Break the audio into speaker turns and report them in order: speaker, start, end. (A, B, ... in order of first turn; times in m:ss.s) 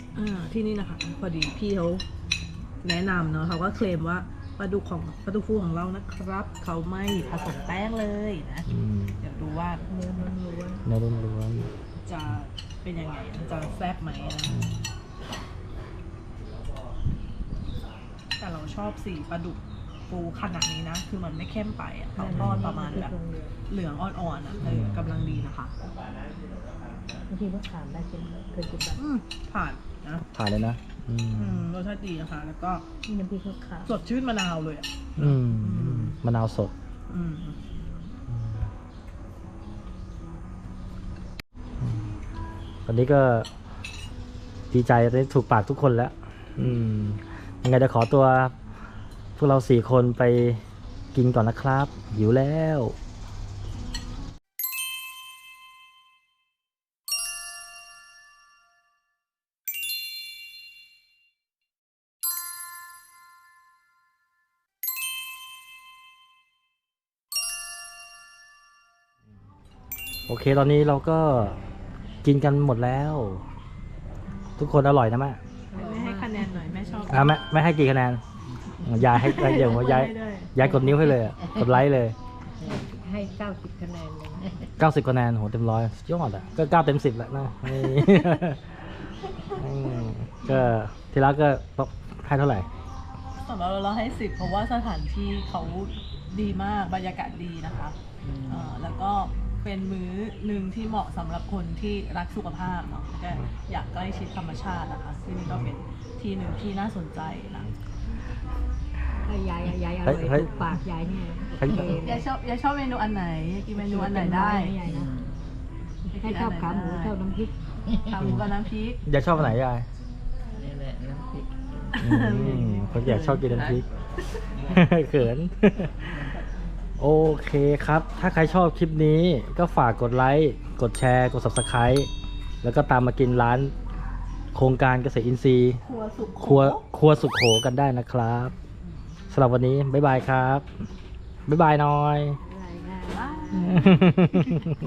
0:00.1-0:02.0 A
0:02.8-0:08.7 A
0:08.6-0:09.2 B
0:09.2-0:09.8 A
0:09.9-0:10.8 C
0:10.8-0:11.7 B
0:12.0-0:14.6 A
0:14.4-0:15.0 B
0:18.4-0:23.2 A
0:22.2-0:23.5 C
0:22.3-0:22.7 B
0:23.7-0:25.7 A
0:24.6-0:25.5 B
0:27.3-0:29.0 C
0:29.0-0:30.2 A
0:30.3-0:31.7 B
0:31.3-0:32.9 A
0:33.0-0:33.9 C
0:33.8-0:36.2 A
0:35.2-0:36.7 B
0:37.1-0:37.6 A
0:38.3-0:38.7 B
0:41.8-0:42.1 B
0:42.8-0:43.5 B
0:44.7-0:48.5 B
0:49.4-0:50.6 B
0:51.1-0:53.0 B
1:10.3-1:11.6 B
1:12.2-1:13.4 B
1:14.6-1:15.4 B
1:15.7-1:17.3 C
1:15.7-1:17.3 A
1:17.1-1:18.2 B
1:18.8-1:22.2 B
1:19.1-1:20.6 A
1:22.8-1:24.6 C
1:24.8-1:28.8 B
1:27.8-1:28.4 A
1:29.5-1:32.7 B
1:33.4-1:47.7 A
1:38.2-1:38.7 D
1:49.2-1:52.3 C
1:50.0-1:50.6 B
1:51.6-1:52.0 B
1:51.7-1:54.8 A
1:53.7-1:55.1 C
1:54.8-1:55.4 D
1:56.1-1:57.1 A
1:56.1-1:57.6 C
1:57.9-1:58.3 D
1:58.0-1:59.0 A
1:58.2-1:59.9 B
2:00.5-2:02.4 D
2:01.9-2:03.6 A
2:02.0-2:03.8 B
2:03.5-2:03.8 D
2:04.5-2:04.8 D
2:04.6-2:06.2 B
2:06.1-2:06.6 A
2:07.0-2:12.1 B
2:12.6-2:13.7 B
2:14.5-2:15.8 B
2:15.8-2:16.8 A
2:16.4-2:18.5 B
2:19.3-2:20.7 B
2:21.5-2:22.4 B
2:22.4-2:24.0 C
2:23.1-2:24.4 A
2:23.7-2:24.7 B